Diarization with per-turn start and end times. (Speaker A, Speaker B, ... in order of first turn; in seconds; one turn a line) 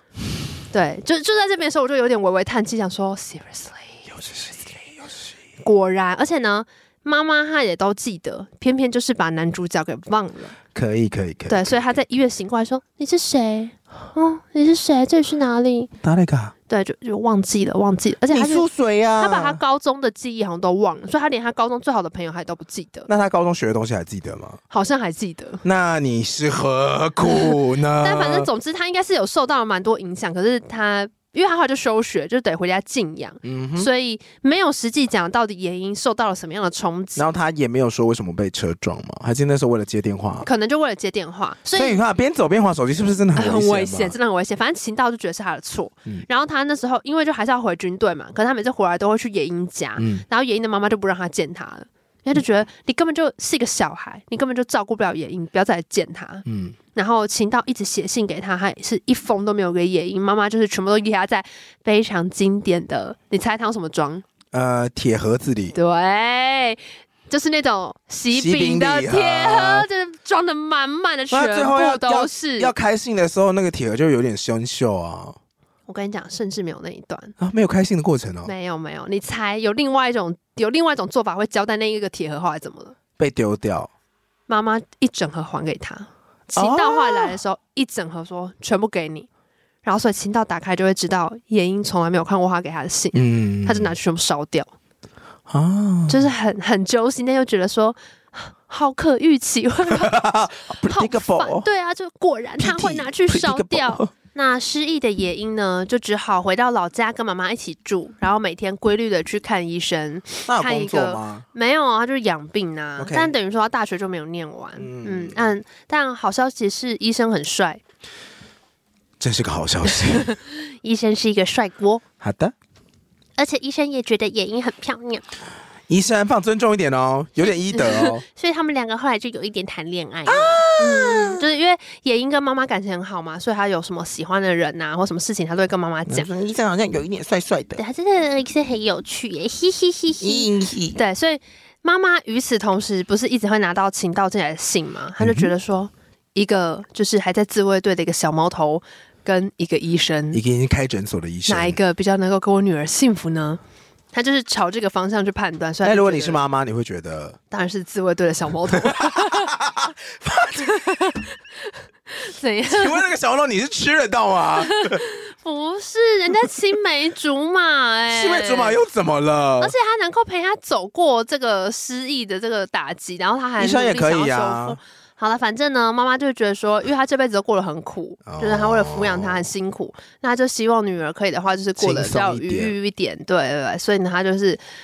Speaker A: 0.7-4.1
Speaker B: 4.1-5.3
Speaker A: 5.6-10.5
Speaker B: 10.7-11.8
Speaker A: 11.5-15.9
Speaker B: 16.0-16.5
Speaker A: 16.7-18.6
Speaker B: 18.3-19.6
Speaker A: 19.2-23.1
Speaker B: 23.1-24.6
Speaker A: 24.7-25.6
Speaker B: 25.6-28.5
Speaker A: 27.2-37.2
Speaker B: 33.4-33.9
Speaker B: 37.1-40.5
Speaker A: 40.4-42.0
Speaker B: 41.7-44.1
Speaker A: 43.4-64.2
Speaker B: 50.0-50.2
Speaker B: 56.4-56.8
Speaker B: 64.5-65.7
Speaker A: 65.7-72.7
Speaker B: 68.3-69.8
Speaker B: 71.3-75.4
Speaker A: 75.9-77.3
Speaker B: 77.4-78.5
Speaker A: 78.4-82.9
Speaker B: 83.2-83.9
Speaker A: 84.5-89.3
Speaker B: 86.5-87.4
Speaker A: 89.8-94.7
Speaker B: 93.1-93.9
Speaker B: 95.5-96.2
Speaker A: 96.1-100.2
Speaker B: 99.9-101.7
Speaker A: 100.8-117.8
Speaker B: 102.6-104.1
Speaker B: 110.5-111.4
Speaker B: 113.0-113.3
Speaker B: 114.8-115.4
Speaker B: 119.2-120.3
Speaker A: 119.9-122.0
Speaker B: 122.2-122.5
Speaker A: 123.4-125.2
Speaker B: 125.9-128.2
Speaker A: 127.7-136.3
Speaker B: 130.2-131.4
Speaker B: 136.1-137.8
Speaker A: 137.8-150.4
Speaker B: 140.2-141.0
Speaker B: 145.2-145.5
Speaker B: 150.3-151.8
Speaker A: 151.5-153.6
Speaker A: 154.1-156.4
Speaker B: 155.8-157.4
Speaker A: 157.5-159.5
Speaker B: 158.7-161.2
Speaker A: 160.6-163.0
Speaker B: 162.7-165.0
Speaker A: 164.6-168.8
Speaker B: 168.1-169.7
Speaker A: 169.6-184.6
Speaker B: 173.6-174.8
Speaker B: 178.3-179.5
Speaker B: 181.8-182.7